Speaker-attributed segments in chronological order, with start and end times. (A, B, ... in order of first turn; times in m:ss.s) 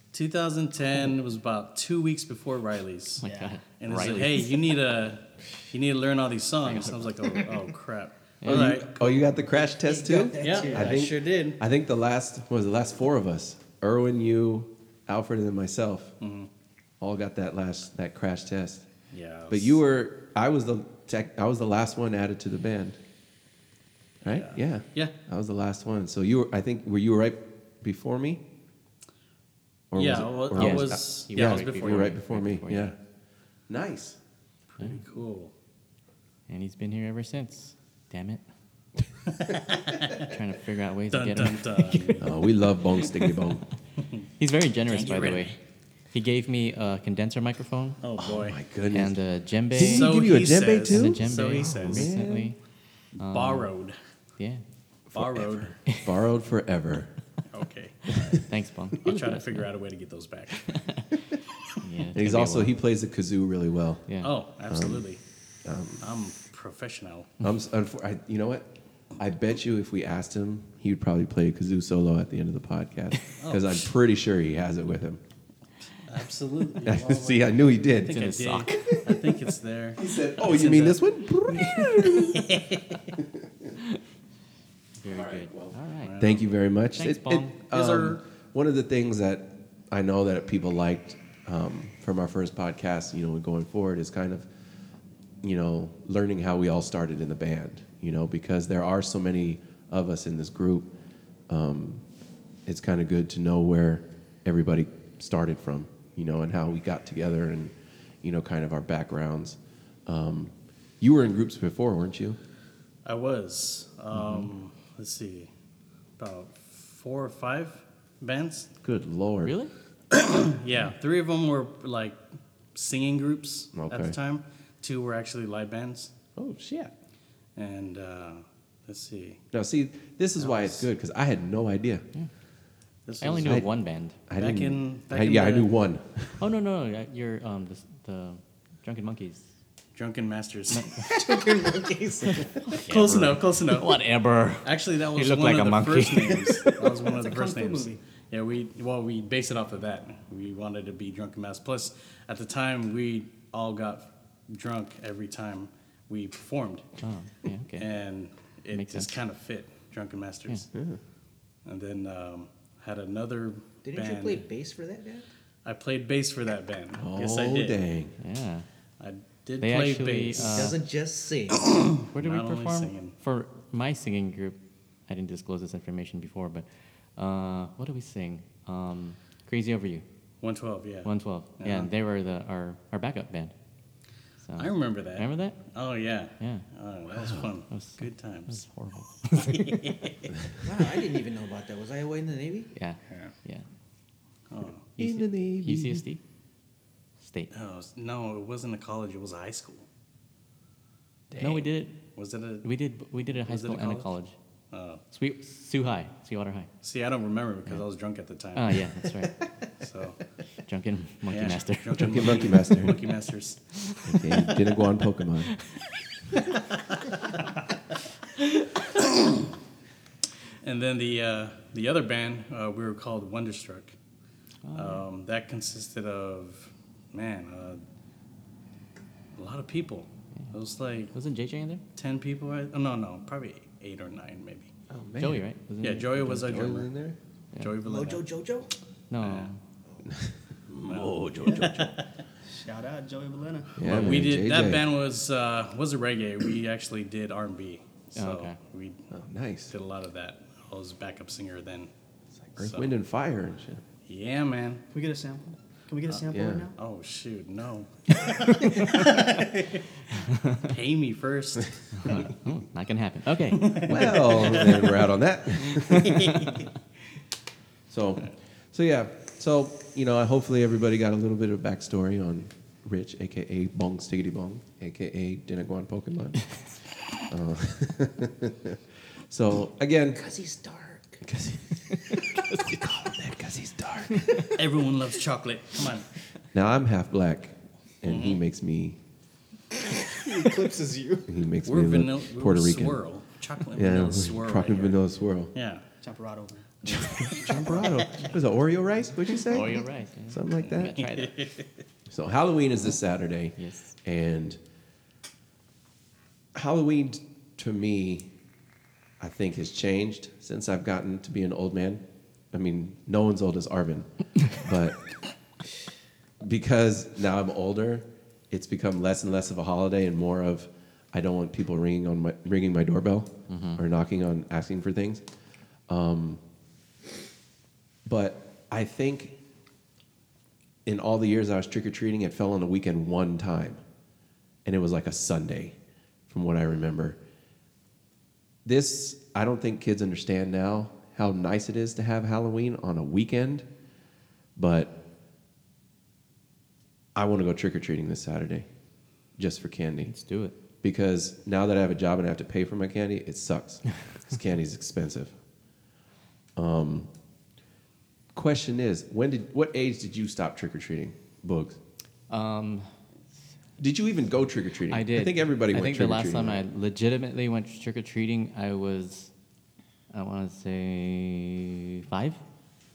0:00.1-0:03.2 A
0:03.2-0:04.5 B
0:03.2-0:03.6 C
0:03.8-0:08.9 A
0:06.7-0:07.4 B
0:08.4-0:09.2 B
0:08.4-0:16.1 D
0:09.6-0:11.0 E
0:10.4-0:11.6 A
0:16.2-0:16.5 A
0:17.0-0:18.8 D
0:19.1-0:19.8 A
0:19.5-0:23.0 D
0:24.2-0:25.1 A
0:24.2-0:28.4 D
0:29.9-0:33.0 D
0:29.9-0:32.2 A
0:30.5-0:32.9 B
0:33.7-0:34.2 D
0:34.7-0:35.5 A
0:36.5-0:38.4 B
0:39.3-0:40.3 A
0:40.1-0:42.3 B
0:41.1-0:42.3 A
0:42.2-0:43.6 D
0:44.4-0:45.5 B
0:44.9-0:45.5 A
0:46.1-0:48.0 B
0:48.0-0:48.6 A
0:48.2-0:49.2 D
0:48.9-0:50.2 B
0:49.7-0:52.5 D
0:49.8-0:52.1 A
0:50.8-0:52.6 B
0:53.2-0:53.7 B
0:53.2-0:54.0 A
0:55.1-0:57.1 D
0:55.1-0:55.8 A
0:57.5-0:58.4 A
0:58.3-0:59.6 B
0:59.0-1:00.7 A
1:00.7-1:01.1 B
1:01.8-1:02.7 B
1:02.1-1:04.1 D
1:04.1-1:04.3 B
1:04.2-1:05.2 A
1:04.7-1:05.0 D
1:05.6-1:06.0 D
1:06.0-1:07.3 A
1:07.4-1:15.2 D
1:13.4-1:13.9 A
1:16.1-1:21.1 A
1:16.8-1:19.1 D
1:18.1-1:19.2 B
1:20.0-1:22.4 D
1:21.5-1:22.4 B
1:22.1-1:23.0 A
1:23.2-1:23.8 D
1:25.0-1:26.2 B
1:25.1-1:34.5 D
1:26.0-1:26.5 A
1:26.9-1:27.6 B
1:27.6-1:28.2 A
1:35.4-1:40.9 D
1:41.5-1:42.0 D
1:42.6-1:52.4 D
1:53.0-1:55.5 A
1:56.2-1:58.7 A
1:58.8-1:59.5 D
1:59.4-1:59.7 B
2:00.1-2:02.2 A
2:02.7-2:06.1 A
2:03.7-2:04.2 D
2:06.4-2:06.9 D
2:07.6-2:09.4 A
2:09.5-2:12.0 D
2:10.4-2:10.8 A
2:13.0-2:13.6 A
2:13.2-2:14.2 B
2:13.4-2:13.7 D
2:14.3-2:16.4 D
2:14.4-2:15.7 A
2:16.4-2:19.4 B
2:20.0-2:21.0 A
2:20.7-2:21.2 B
2:21.0-2:22.7 E
2:22.7-2:26.8 B
2:22.8-2:24.0 A
2:24.6-2:36.9 A
2:27.2-2:28.0 C
2:37.0-2:37.8 B
2:37.8-2:40.7 A
2:38.7-2:39.2 B
2:40.7-2:41.0 D
2:41.6-2:44.4 A
2:43.8-2:45.3 E
2:45.6-2:47.8 A
2:46.9-2:48.2 D
2:48.2-2:48.6 B
2:49.0-2:50.8 A
2:49.6-2:50.8 B
2:50.4-2:51.7 E
2:51.5-2:53.1 A
2:52.0-2:54.6 B
2:55.1-3:00.0 B
3:00.4-3:01.9 A
3:01.0-3:03.5 B
3:04.4-3:05.6 B
3:04.6-3:08.6 A
3:07.2-3:07.5 D
3:07.7-3:10.0 B
3:09.4-3:10.3 A
3:10.6-3:12.7 E
3:12.7-3:13.6 B
3:14.5-3:14.8 A
3:15.0-3:16.2 B
3:15.0-3:16.0 D
3:17.2-3:17.5 B
3:17.5-3:19.9 A
3:21.3-3:21.7 D
3:21.4-3:22.0 B
3:22.1-3:22.7 A
3:22.6-3:24.3 B
3:23.3-3:24.1 A
3:24.7-3:25.0 A
3:25.1-3:26.7 B
3:26.8-3:28.9 A
3:28.5-3:29.4 B
3:29.8-3:30.2 A
3:30.6-3:32.5 B
3:31.3-3:34.7 A
3:32.0-3:33.0 D
3:33.8-3:34.1 B
3:34.1-3:35.5 D
3:40.6-3:44.0 A
3:44.6-3:45.0 B
3:44.7-3:47.8 A
3:49.4-3:51.1 A
3:51.1-3:51.8 B
3:52.0-3:54.7 A
3:54.9-3:55.5 D
3:55.2-3:56.5 B
3:55.8-3:56.9 A
3:56.4-3:57.2 D
3:57.6-3:58.2 A
3:57.8-3:58.7 E
3:59.1-3:59.6 B
3:59.2-3:59.5 A
4:00.0-4:02.0 D
4:00.8-4:02.1 A
4:02.5-4:03.8 C
4:03.8-4:04.9 D
4:03.8-4:09.0 A
4:08.2-4:08.6 B
4:09.1-4:09.7 D
4:09.7-4:11.9 A
4:12.4-4:13.8 D
4:12.6-4:12.9 A
4:14.1-4:14.8 A
4:14.9-4:16.8 C
4:16.3-4:16.7 D
4:16.8-4:19.8 A
4:20.3-4:20.7 B
4:20.6-4:22.3 A
4:22.0-4:24.0 B
4:23.5-4:25.0 A
4:23.8-4:26.3 D
4:25.6-4:26.6 A
4:25.9-4:26.6 B
4:27.9-4:36.6 D
4:37.2-4:40.2 D
4:40.1-4:41.2 E
4:41.2-4:44.3 D
4:44.6-4:46.1 A
4:46.5-4:49.0 D
4:48.0-4:48.4 A
4:50.1-4:51.3 E
4:51.3-4:53.0 D
4:51.6-4:55.8 A
4:53.7-4:55.5 D
4:56.0-4:58.1 C
4:56.9-5:00.9 D
4:59.4-5:01.4 B
5:00.9-5:01.7 A
5:02.1-5:04.6 D
5:03.6-5:03.9 B
5:06.5-5:08.3 D
5:09.2-5:15.0 D
5:16.4-5:25.2 D
5:23.5-5:23.8 B
5:25.9-5:26.4 D
5:28.0-5:29.4 D
5:30.8-5:33.8 D
5:34.6-5:35.8 D
5:36.3-5:37.2 D
5:38.6-5:43.7 D
5:44.6-5:44.9 D
5:47.2-5:48.7 D
5:49.4-5:50.1 D
5:50.0-5:50.5 B
5:50.8-5:55.3 D
5:56.6-5:57.1 D
5:58.3-6:01.8 D
6:02.3-6:02.9 B
6:03.8-6:06.6 D
6:04.9-6:09.3 B
6:10.1-6:12.4 B